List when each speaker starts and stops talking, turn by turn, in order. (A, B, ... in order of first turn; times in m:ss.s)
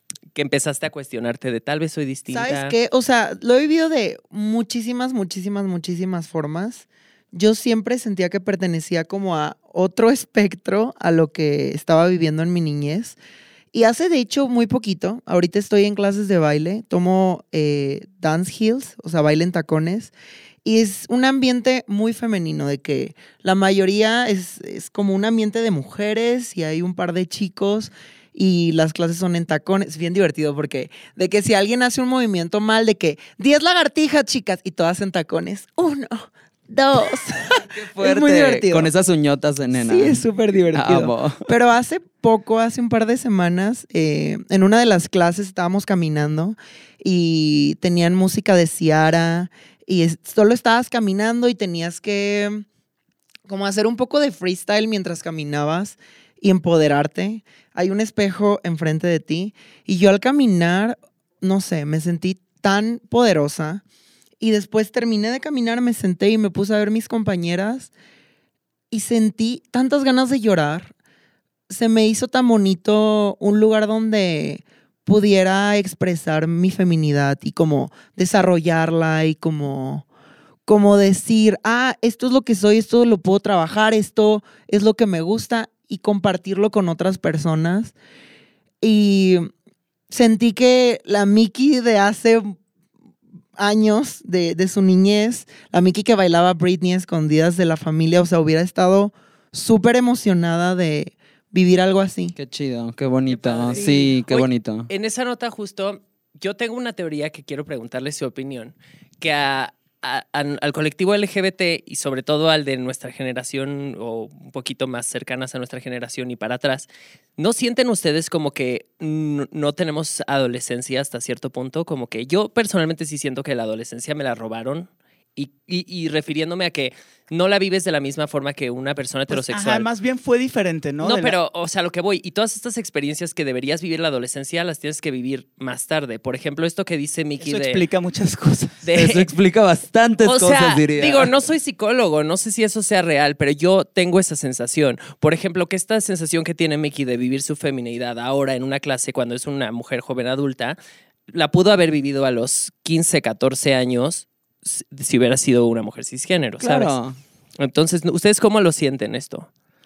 0:00.3-0:02.8 A
0:02.3-0:13.2 B
0:13.7-0:20.1 B
0:20.6-0:38.9 B
0:37.7-0:41.4 C
0:39.7-0:52.6 B
0:53.5-1:03.8 B
1:04.4-1:07.9 B
1:08.9-1:10.9 B
1:11.7-1:20.0 B
1:20.6-1:27.9 B
1:28.8-1:29.5 B
1:30.1-1:32.6 B
1:33.6-1:42.4 B
1:42.3-1:44.9 C
1:43.3-2:09.9 A
2:09.3-2:11.4 D
2:11.0-2:17.8 A
2:17.4-2:18.8 D
2:18.8-2:19.3 A
2:18.9-2:21.3 C
2:20.2-2:30.8 A
2:31.3-2:36.9 A
2:36.6-2:37.2 C
2:37.6-2:39.5 A